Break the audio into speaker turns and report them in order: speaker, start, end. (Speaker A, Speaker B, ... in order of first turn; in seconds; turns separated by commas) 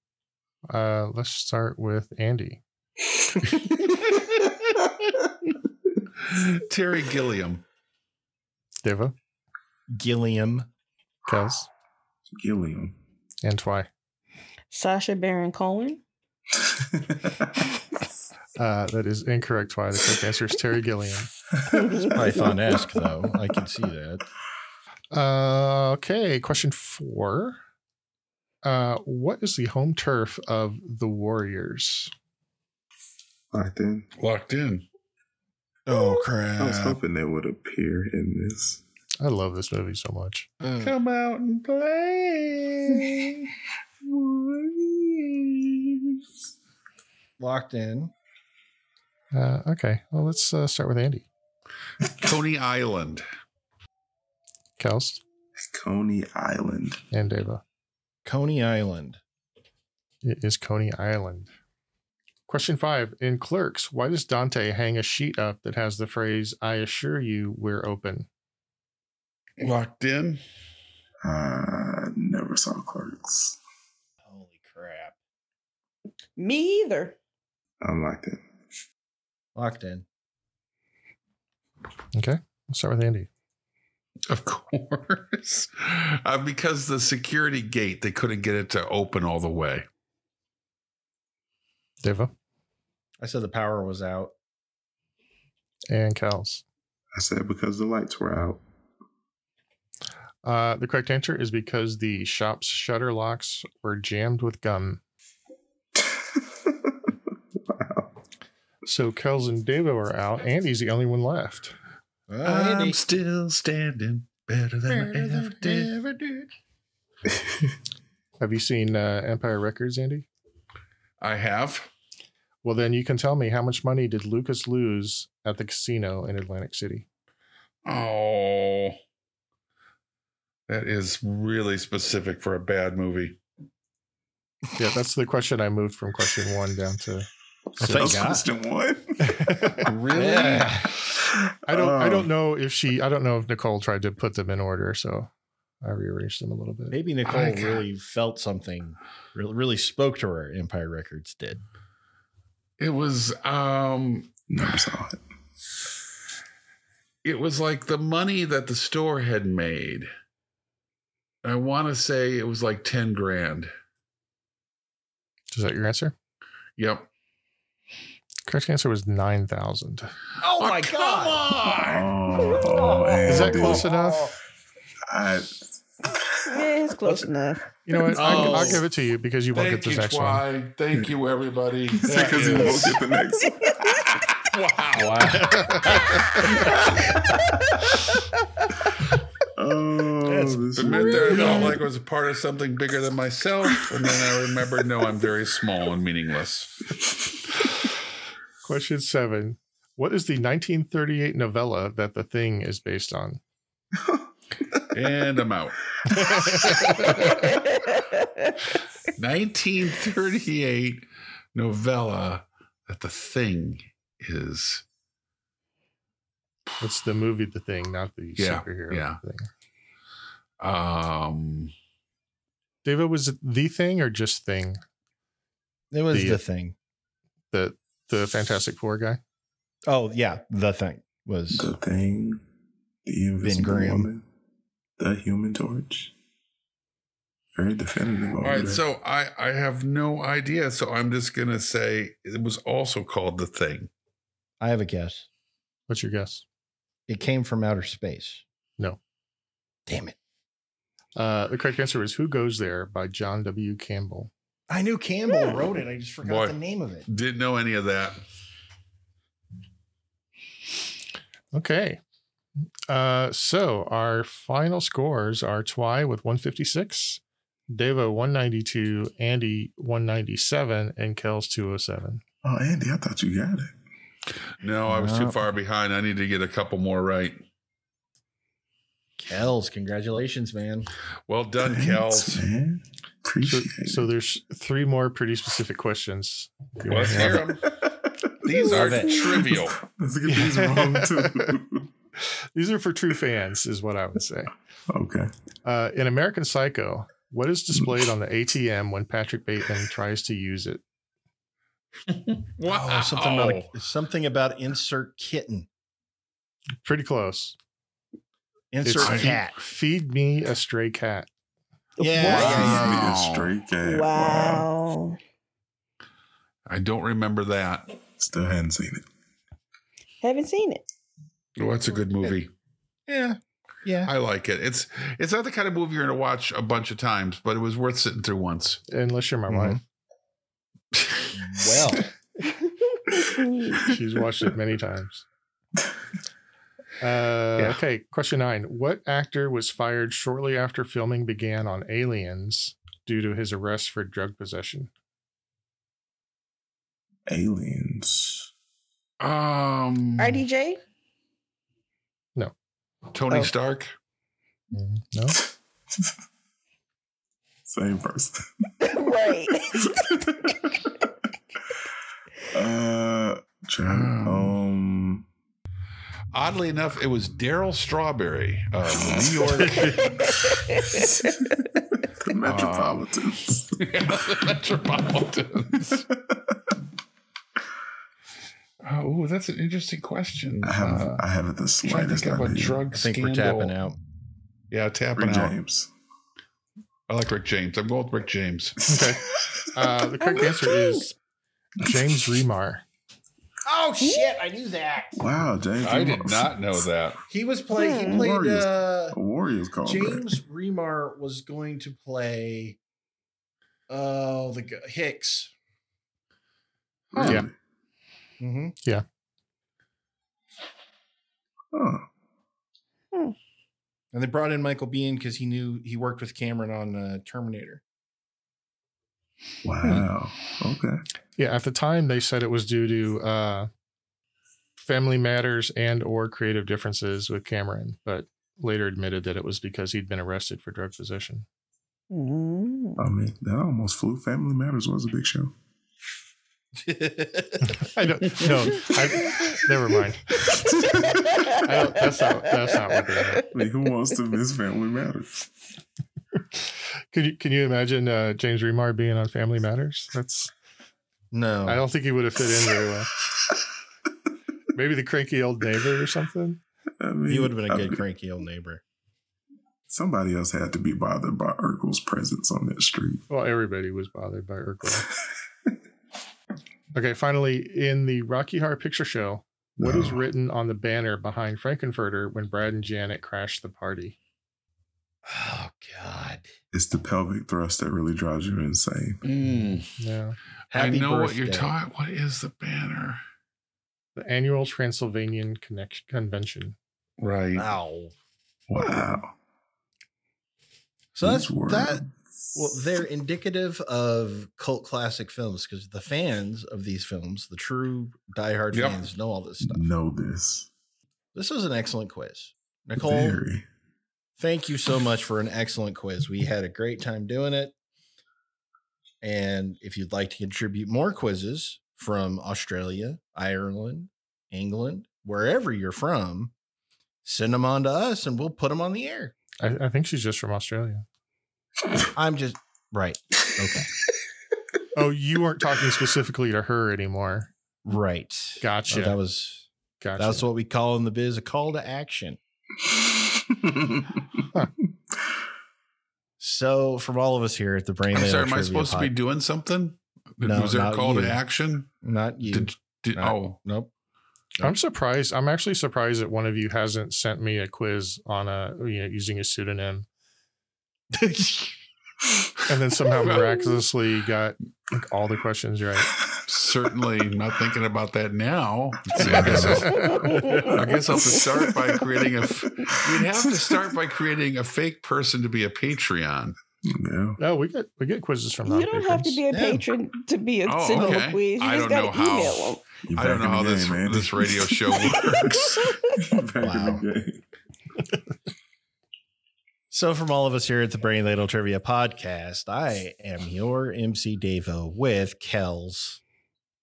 Speaker A: 0.7-2.6, Speaker B: 6.3-7.6, Speaker A: 8.8-9.2, Speaker C: 9.9-10.7, Speaker A: 11.3-11.7, Speaker D: 12.3-13.0, Speaker A: 13.4-13.9, Speaker E: 14.7-16.0, Speaker D: 16.7-17.5, Speaker A: 18.6-21.3, Speaker E: 21.7-22.2, Speaker C: 22.1-24.2, Speaker A: 25.1-27.6, Speaker A: 28.6-32.1, Speaker D: 33.5-34.1, Speaker B: 34.2-34.9, Speaker C: 35.9-37.0, Speaker D: 36.6-38.8, Speaker A: 39.2-40.5, Speaker C: 40.6-40.9, Speaker B: 40.8-43.1, Speaker D: 44.0-46.2, Speaker C: 47.4-48.1, Speaker A: 49.3-51.3, Speaker B: 52.1-53.2, Speaker A: 54.8-55.2, Speaker D: 55.6-57.0, Speaker A: 57.1-57.6, Speaker C: 58.2-59.2, Speaker A: 60.2-61.5, Speaker A: 62.5-68.3, Speaker B: 69.6-70.4, Speaker D: 71.2-73.6, Speaker C: 74.2-75.2, Speaker E: 76.4-77.2, Speaker D: 77.8-78.5, Speaker C: 79.5-80.0, Speaker A: 82.1-83.3, Speaker B: 84.3-89.8, Speaker A: 92.0-92.3, Speaker C: 93.2-94.3, Speaker A: 95.9-96.6, Speaker D: 97.1-98.6, Speaker A: 100.4-105.0, Speaker D: 106.0-107.1, Speaker D: 107.7-108.1, Speaker A: 108.9-111.8, Speaker C: 112.3-113.0, Speaker B: 112.4-115.9, Speaker C: 114.9-116.5, Speaker A: 118.4-120.3, Speaker B: 121.2-121.9, Speaker A: 122.6-127.1, Speaker B: 127.9-129.0, Speaker B: 130.7-133.4, Speaker A: 134.8-137.3, Speaker D: 137.7-139.9, Speaker A: 137.8-138.1, Speaker C: 137.8-138.4, Speaker A: 139.3-139.8, Speaker B: 139.8-140.8, Speaker C: 140.1-140.9, Speaker D: 141.2-142.3, Speaker A: 141.7-145.3, Speaker A: 145.8-147.0, Speaker C: 146.9-151.6, Speaker B: 147.2-147.8, Speaker B: 152.8-154.4, Speaker D: 154.5-155.2, Speaker B: 157.2-160.1, Speaker B: 161.4-163.7, Speaker A: 165.5-166.1, Speaker B: 166.8-167.1, Speaker A: 168.5-170.1, Speaker C: 170.4-171.8, Speaker B: 170.6-172.1, Speaker D: 171.8-173.9, Speaker C: 172.7-174.1, Speaker A: 173.3-174.3, Speaker D: 175.1-176.6, Speaker E: 176.5-177.7, Speaker C: 177.0-177.3, Speaker A: 177.9-180.4, Speaker C: 178.1-178.8, Speaker B: 179.5-183.0, Speaker D: 181.9-184.1, Speaker B: 184.1-186.5, Speaker C: 185.0-186.8, Speaker D: 189.6-191.8, Speaker C: 190.3-191.8, Speaker B: 190.8-196.8, Speaker A: 198.6-203.4, Speaker B: 204.9-207.4, Speaker A: 206.2-206.8, Speaker B: 209.2-214.8, Speaker A: 216.8-219.5, Speaker B: 218.4-219.2, Speaker B: 220.6-221.7, Speaker A: 222.8-224.8, Speaker C: 225.9-226.8, Speaker A: 226.1-226.4, Speaker A: 227.5-229.2, Speaker C: 229.9-231.7, Speaker D: 231.5-232.4, Speaker D: 233.1-234.2, Speaker C: 233.4-234.1, Speaker D: 235.0-236.1, Speaker D: 237.6-238.8, Speaker B: 238.4-243.9, Speaker C: 244.6-245.3, Speaker A: 245.9-246.4, Speaker C: 247.1-248.4, Speaker C: 249.9-250.2, Speaker A: 251.2-254.3, Speaker C: 254.7-257.1, Speaker B: 256.2-256.6, Speaker B: 257.1-258.2, Speaker A: 261.5-262.0, Speaker A: 262.9-267.2, Speaker A: 267.7-272.2, Speaker D: 272.4-273.8, Speaker B: 274.6-277.4, Speaker C: 274.9-275.4, Speaker C: 279.2-280.9, Speaker B: 281.3-282.4, Speaker D: 281.6-284.1, Speaker A: 283.4-287.4, Speaker B: 286.9-287.7, Speaker B: 288.4-289.8, Speaker C: 288.6-289.2, Speaker D: 289.5-291.9, Speaker A: 290.3-291.5, Speaker A: 292.6-294.5, Speaker D: 294.9-295.3, Speaker A: 295.6-300.8, Speaker B: 302.1-303.7, Speaker C: 302.7-305.7, Speaker A: 306.8-307.6, Speaker C: 308.7-309.6, Speaker A: 308.8-311.3, Speaker B: 309.0-309.4, Speaker E: 312.0-312.7, Speaker C: 312.0-313.0, Speaker B: 312.3-313.5, Speaker D: 312.3-314.7, Speaker E: 313.8-315.2, Speaker B: 316.7-318.0, Speaker D: 318.2-319.1, Speaker E: 320.2-320.8, Speaker B: 321.6-322.5, Speaker C: 323.1-324.1, Speaker B: 324.1-328.8, Speaker A: 328.9-329.8, Speaker C: 329.5-329.8, Speaker C: 331.4-332.1, Speaker E: 333.1-333.7, Speaker A: 333.8-335.2, Speaker A: 337.0-344.9, Speaker D: 347.3-348.5, Speaker B: 349.2-350.4, Speaker E: 350.2-350.8, Speaker B: 353.1-353.9, Speaker A: 354.7-355.4, Speaker D: 357.7-358.5, Speaker E: 358.9-360.0, Speaker D: 360.0-360.4, Speaker D: 362.5-365.3, Speaker B: 363.9-364.6, Speaker B: 366.3-370.1, Speaker E: 369.9-371.1, Speaker D: 372.2-374.0, Speaker B: 372.4-373.1, Speaker B: 373.8-376.1, Speaker B: 378.9-381.2, Speaker D: 380.6-382.8, Speaker B: 381.8-383.7, Speaker C: 382.9-384.0, Speaker B: 384.7-385.6, Speaker D: 385.2-385.9, Speaker B: 387.1-388.8, Speaker A: 388.9-389.2, Speaker D: 388.9-389.5, Speaker A: 389.7-391.1, Speaker E: 390.3-390.9, Speaker A: 391.8-392.8, Speaker C: 393.6-395.2, Speaker D: 395.2-396.9, Speaker B: 395.8-397.2, Speaker C: 397.3-399.2, Speaker E: 397.7-398.2, Speaker D: 398.0-400.4, Speaker C: 399.9-402.8, Speaker C: 403.9-405.5, Speaker D: 407.1-407.5, Speaker C: 408.4-408.8, Speaker D: 411.7-412.1, Speaker C: 414.1-417.8, Speaker D: 419.6-421.0, Speaker A: 421.4-423.7, Speaker A: 424.8-431.5, Speaker E: 432.1-433.0, Speaker D: 433.0-435.5, Speaker C: 436.8-437.9, Speaker A: 437.8-440.6, Speaker A: 441.6-443.4, Speaker D: 443.5-445.5, Speaker A: 447.1-450.5, Speaker C: 451.3-451.8, Speaker A: 451.7-453.1, Speaker A: 454.7-456.6, Speaker D: 457.0-458.0, Speaker C: 457.3-458.8, Speaker D: 459.9-463.2, Speaker A: 463.3-465.1, Speaker A: 466.9-474.2, Speaker D: 469.8-470.2, Speaker C: 475.3-476.5, Speaker D: 476.7-479.2, Speaker B: 479.2-479.9, Speaker A: 480.0-480.4, Speaker C: 480.7-481.7, Speaker B: 480.7-483.2, Speaker A: 484.2-486.8, Speaker B: 487.2-487.7, Speaker C: 487.6-488.1, Speaker D: 488.7-489.3, Speaker C: 491.1-492.0, Speaker D: 491.2-493.0, Speaker C: 492.6-499.9, Speaker B: 498.7-499.0, Speaker D: 499.6-500.7, Speaker C: 501.3-503.4, Speaker D: 503.0-503.6, Speaker C: 504.4-507.7, Speaker C: 509.2-516.5, Speaker C: 517.2-519.4, Speaker A: 519.6-521.0, Speaker C: 522.1-523.9, Speaker A: 524.9-527.5, Speaker C: 527.9-532.4, Speaker A: 528.6-529.2, Speaker A: 530.0-530.5, Speaker D: 532.9-534.2, Speaker C: 536.4-539.1, Speaker B: 538.1-541.9, Speaker C: 540.4-541.4, Speaker C: 542.0-543.9, Speaker B: 542.5-543.6, Speaker A: 544.6-550.1, Speaker C: 551.1-551.7, Speaker A: 552.7-556.1, Speaker B: 556.5-566.5, Speaker D: 559.1-560.1, Speaker A: 559.2-560.2, Speaker E: 560.2-560.7, Speaker D: 563.3-563.7, Speaker D: 566.9-567.4, Speaker A: 567.4-569.4, Speaker E: 568.7-572.8, Speaker C: 569.5-569.9, Speaker B: 570.7-576.0, Speaker C: 570.9-571.3, Speaker D: 573.1-574.8, Speaker D: 576.1-577.4, Speaker C: 576.6-577.1, Speaker C: 579.9-586.2